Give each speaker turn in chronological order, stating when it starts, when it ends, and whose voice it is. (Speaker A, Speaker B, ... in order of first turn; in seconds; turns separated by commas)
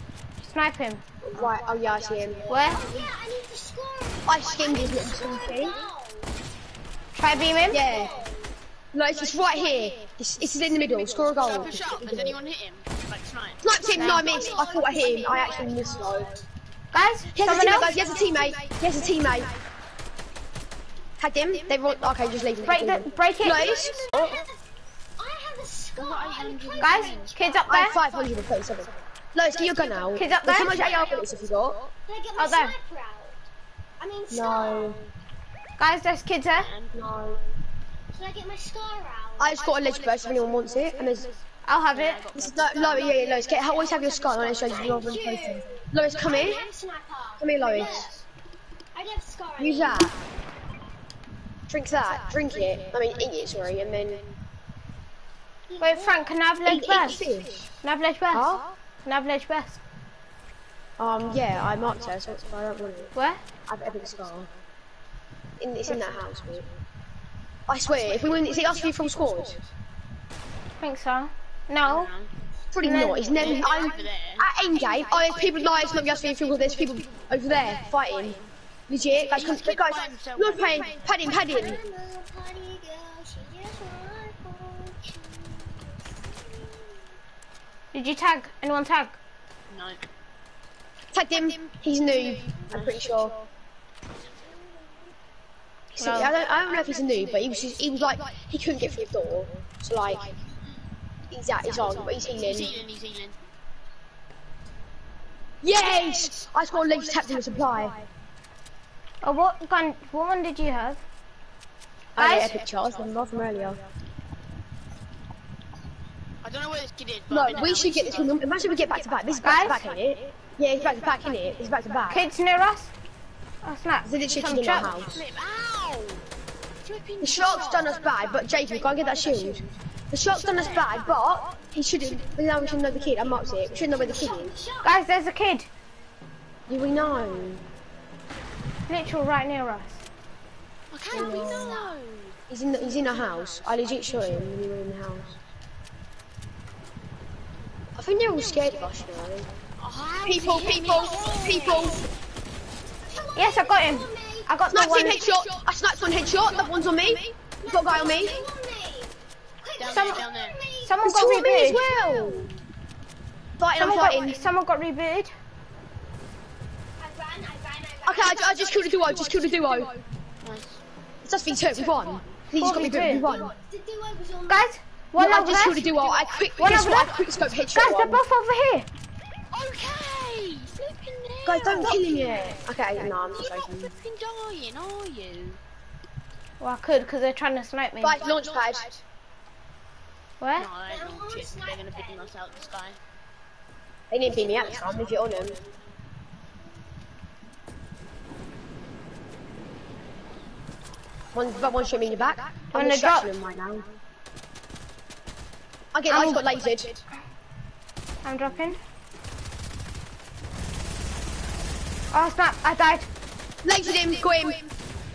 Speaker A: 0.4-1.4, Speaker B: 1.2-2.5, Speaker C: 1.4-3.1, Speaker A: 2.5-2.9, Speaker D: 2.5-6.3, Speaker B: 4.2-5.8, Speaker C: 4.4-5.9, Speaker A: 7.1-7.8, Speaker D: 7.2-8.5, Speaker C: 7.5-8.2, Speaker B: 7.7-8.2, Speaker B: 8.9-12.4, Speaker C: 9.1-16.4, Speaker D: 11.5-11.8, Speaker B: 13.6-16.3, Speaker D: 13.9-16.4, Speaker A: 16.9-18.0, Speaker B: 17.3-19.5, Speaker C: 17.6-19.6, Speaker B: 21.2-24.4, Speaker C: 21.5-24.3, Speaker A: 22.6-23.9, Speaker D: 24.1-24.6, Speaker D: 25.2-27.9, Speaker C: 26.0-27.4, Speaker A: 26.8-28.0, Speaker B: 27.6-31.8, Speaker C: 27.9-28.5, Speaker C: 29.4-31.9, Speaker A: 30.1-31.0, Speaker D: 32.1-33.4, Speaker A: 32.4-32.7, Speaker D: 34.0-35.0, Speaker B: 34.3-35.0, Speaker A: 35.8-36.7, Speaker C: 36.5-37.4, Speaker B: 36.9-37.4, Speaker D: 38.1-39.7, Speaker B: 39.4-41.3, Speaker C: 39.6-46.7, Speaker A: 41.6-42.2, Speaker B: 42.3-46.6, Speaker D: 44.6-48.2, Speaker B: 47.4-48.1, Speaker C: 47.7-48.2, Speaker D: 48.9-50.2, Speaker B: 49.6-50.2, Speaker B: 51.7-54.2, Speaker C: 52.0-54.4, Speaker D: 55.7-56.3, Speaker A: 55.8-57.2, Speaker B: 56.6-57.6, Speaker C: 57.1-57.6, Speaker A: 57.8-59.8, Speaker B: 58.3-58.6, Speaker B: 61.0-63.1, Speaker C: 61.2-62.6, Speaker A: 63.1-63.4, Speaker B: 63.7-64.5, Speaker C: 63.9-64.6, Speaker B: 65.6-66.7, Speaker C: 65.9-66.6, Speaker B: 67.7-69.6, Speaker C: 67.8-69.7, Speaker A: 70.8-72.1, Speaker C: 71.8-72.3, Speaker B: 72.7-78.4, Speaker A: 72.8-73.5, Speaker C: 73.3-78.5, Speaker B: 78.9-81.8, Speaker C: 79.1-81.8, Speaker D: 79.4-87.0, Speaker A: 87.9-89.2, Speaker C: 89.7-90.0, Speaker B: 91.1-93.3, Speaker C: 91.3-93.5, Speaker D: 94.5-94.9, Speaker A: 95.9-96.3, Speaker B: 95.9-100.3, Speaker C: 96.1-98.3, Speaker C: 100.0-100.4, Speaker B: 101.3-102.7, Speaker C: 101.6-103.3, Speaker B: 105.6-107.9, Speaker C: 105.8-108.1, Speaker A: 109.2-111.0, Speaker B: 112.2-113.8, Speaker A: 112.2-112.6, Speaker C: 112.2-114.0, Speaker C: 116.4-122.0, Speaker B: 117.3-122.3, Speaker A: 119.4-119.9, Speaker A: 122.1-122.9, Speaker A: 123.6-125.0, Speaker B: 124.0-125.2, Speaker C: 124.9-126.3, Speaker C: 126.8-129.7, Speaker B: 127.2-134.6, Speaker C: 130.2-134.4, Speaker D: 133.7-135.0, Speaker A: 134.8-135.7, Speaker B: 136.7-137.6, Speaker A: 138.9-140.0, Speaker C: 140.9-144.6, Speaker B: 141.1-141.8, Speaker B: 142.5-145.3, Speaker B: 147.9-149.5, Speaker C: 148.3-152.1, Speaker B: 150.2-152.1, Speaker D: 150.8-152.1, Speaker D: 153.1-154.6, Speaker A: 153.3-155.2, Speaker B: 154.7-158.4, Speaker C: 155.1-158.5, Speaker D: 157.6-162.5, Speaker C: 159.7-160.6, Speaker A: 159.9-160.2, Speaker A: 160.8-161.8, Speaker B: 161.0-162.5, Speaker B: 163.6-164.5, Speaker A: 163.8-165.3, Speaker D: 167.0-169.2, Speaker B: 168.0-169.9, Speaker C: 169.1-170.8, Speaker B: 171.2-173.5, Speaker C: 171.4-172.4, Speaker A: 172.5-173.4, Speaker D: 172.7-174.7, Speaker A: 174.5-175.9, Speaker B: 175.1-178.2, Speaker C: 175.7-177.6, Speaker A: 176.6-178.9, Speaker C: 179.5-185.6, Speaker B: 181.4-183.9, Speaker D: 181.7-183.7, Speaker A: 186.6-188.2, Speaker B: 188.0-189.0, Speaker C: 188.2-188.9, Speaker A: 190.4-190.7, Speaker C: 190.6-193.0, Speaker D: 190.8-192.7, Speaker B: 194.1-195.6, Speaker C: 194.2-195.7, Speaker B: 201.3-203.8, Speaker C: 201.5-202.6, Speaker A: 202.7-203.3, Speaker B: 205.9-207.0, Speaker A: 206.1-206.4, Speaker C: 206.3-206.9, Speaker A: 208.2-208.8, Speaker A: 212.1-213.1, Speaker B: 213.6-214.6, Speaker C: 213.9-214.7